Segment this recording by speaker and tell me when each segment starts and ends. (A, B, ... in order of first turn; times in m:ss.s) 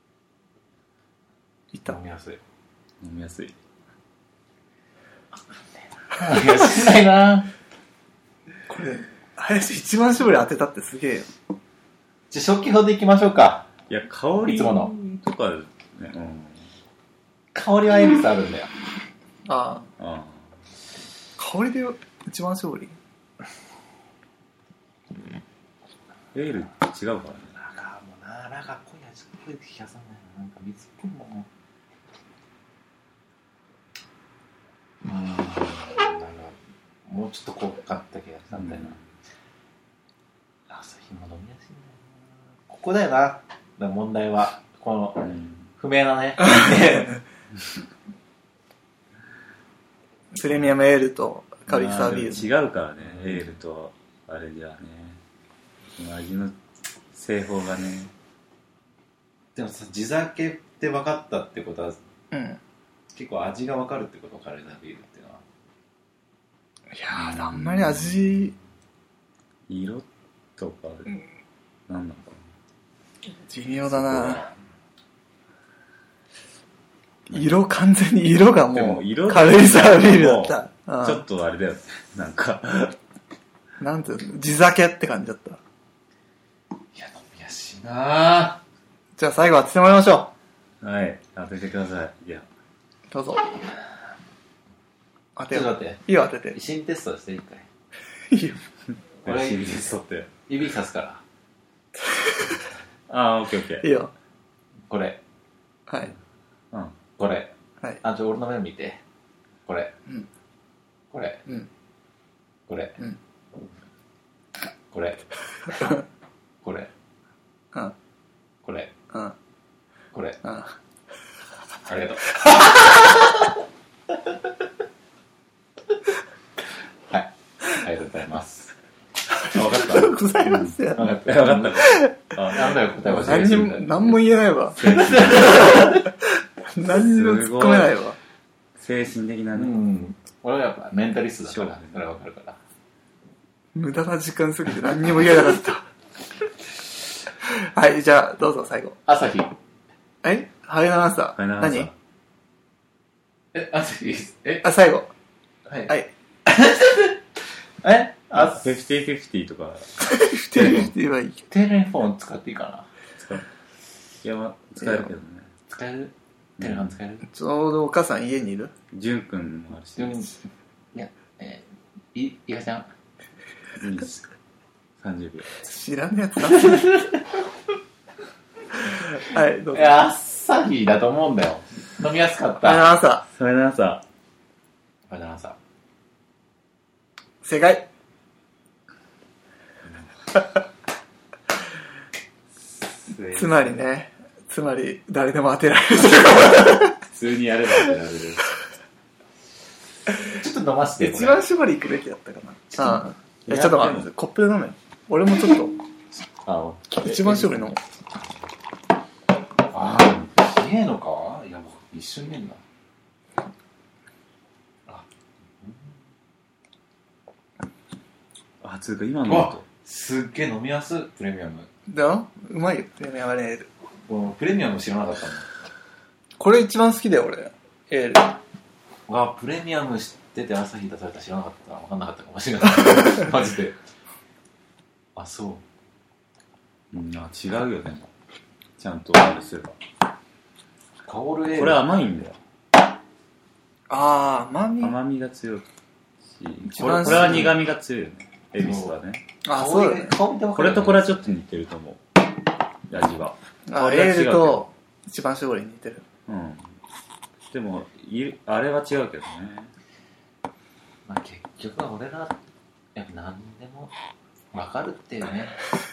0:01.8-0:02.4 A
0:03.0-0:03.6 B
0:05.6-0:07.5 A
0:08.7-0:11.3 C
0:12.3-0:13.7 A
0:13.9-0:16.7 B
0:14.4-0:14.9 A
0:17.5-0:18.7 A
0:19.4-0:19.9 C
0:20.0-0:20.4 B
0:21.4-0:23.0 C
0:26.3-0:27.6 B
0:27.5-0:31.5 A
0:35.0-0:39.0 A
0:38.6-0:39.0 B
0:40.7-0:47.2 A
0:45.2-0:45.7 B
0:50.3-0:52.5 C
0:51.7-0:55.2 B
0:53.0-0:53.4 A
0:56.0-0:56.6 B
0:57.1-0:58.1 B
0:59.6-1:02.0 A
1:02.3-1:02.6 C
1:03.1-1:05.4 A
1:06.9-1:08.5 C
1:07.1-1:08.5 B
1:09.7-1:10.1 B
1:10.6-1:11.2 B
1:11.9-1:12.4 B
1:13.5-1:14.4 C
1:17.3-1:17.6 B
1:17.3-1:21.2 C
1:18.7-1:23.0 B
1:23.8-1:25.6 C
1:26.9-1:28.6 A
1:29.2-1:30.3 C
1:30.8-1:32.4 B
1:33.1-1:33.5 C
1:35.4-1:36.6 C
1:35.5-1:37.7 A
1:38.3-1:38.6 C
1:39.2-1:40.4 B
1:39.2-1:41.2 A
1:43.1-1:43.9 B
1:43.8-1:44.1 C
1:44.9-1:45.2 A
1:45.9-1:46.1 C
1:47.2-1:49.0 A
1:49.6-1:49.9 A
1:51.1-1:51.4 A
1:52.7-1:53.0 A
1:54.9-1:55.3 A
1:55.8-1:56.0 C
1:56.6-1:56.9 A
1:58.6-1:58.9 A
2:00.1-2:00.4 A
2:00.4-2:00.8 C
2:01.9-2:03.4 A
2:02.4-2:02.9 C
2:07.1-2:08.7 A
2:09.4-2:11.1 C
2:09.5-2:10.2 A
2:10.4-2:14.1 B
2:11.0-2:11.9 A
2:11.7-2:12.3 C
2:12.5-2:13.9 A
2:13.0-2:18.2 C
2:14.8-2:16.0 B
2:14.8-2:15.9 A
2:16.9-2:17.9 B
2:18.8-2:19.8 B
2:19.5-2:22.6 A
2:21.4-2:22.1 B
2:23.8-2:25.8 C
2:27.4-2:29.0 C
2:29.1-2:29.5 A
2:30.2-2:31.9 C
2:31.4-2:31.9 B
2:33.5-2:34.6 A
2:34.6-2:35.1 C
2:35.7-2:35.9 A
2:36.4-2:37.2 A
2:37.8-2:38.7 A
2:38.3-2:39.9 B
2:40.0-2:41.4 C
2:40.6-2:40.9 B
2:41.5-2:42.9 A
2:43.2-2:43.4 B
2:44.2-2:45.5 B
2:45.7-2:47.3 A
2:46.6-2:46.9 B
2:47.3-2:48.7 C
2:48.9-2:50.3 B
2:50.0-2:50.4 A
2:50.9-2:52.9 A
2:53.8-2:54.2 B
2:55.0-2:55.7 B
2:55.6-2:57.0 C
2:59.0-3:00.0 C
2:59.7-3:02.9 A
3:02.6-3:03.3 C
3:03.3-3:04.0 B
3:05.1-3:05.6 A
3:07.4-3:07.9 C
3:13.0-3:13.8 B
3:13.3-3:16.9 C
3:16.8-3:18.5 B
3:20.2-3:21.4 A
3:21.0-3:25.8 C
3:23.4-3:24.1 B
3:26.4-3:27.7 B
3:26.9-3:27.8 C
3:29.7-3:32.6 A
3:29.8-3:30.4 B
3:35.6-3:35.9 A
3:38.6-3:39.6 B
3:39.2-3:41.7 A
3:41.9-3:43.7 C
3:44.1-3:45.5 A
3:46.4-3:48.4 C
3:49.1-3:53.8 A
3:55.2-3:55.6 A
3:56.9-3:58.1 B
3:58.8-3:59.8 B
4:01.0-4:01.8 A
4:01.5-4:02.4 B
4:03.9-4:05.0 C
4:04.8-4:05.7 B
4:06.3-4:09.2 B
4:06.7-4:07.5 C
4:06.8-4:07.6 A
4:08.6-4:09.0 A
4:09.4-4:10.2 C
4:09.5-4:11.3 A
4:10.5-4:12.0 B
4:12.9-4:14.6 B
4:13.7-4:16.0 C
4:16.3-4:16.8 B
4:17.5-4:19.7 B
4:21.1-4:22.4 A
4:22.9-4:23.9 A
4:24.5-4:25.7 A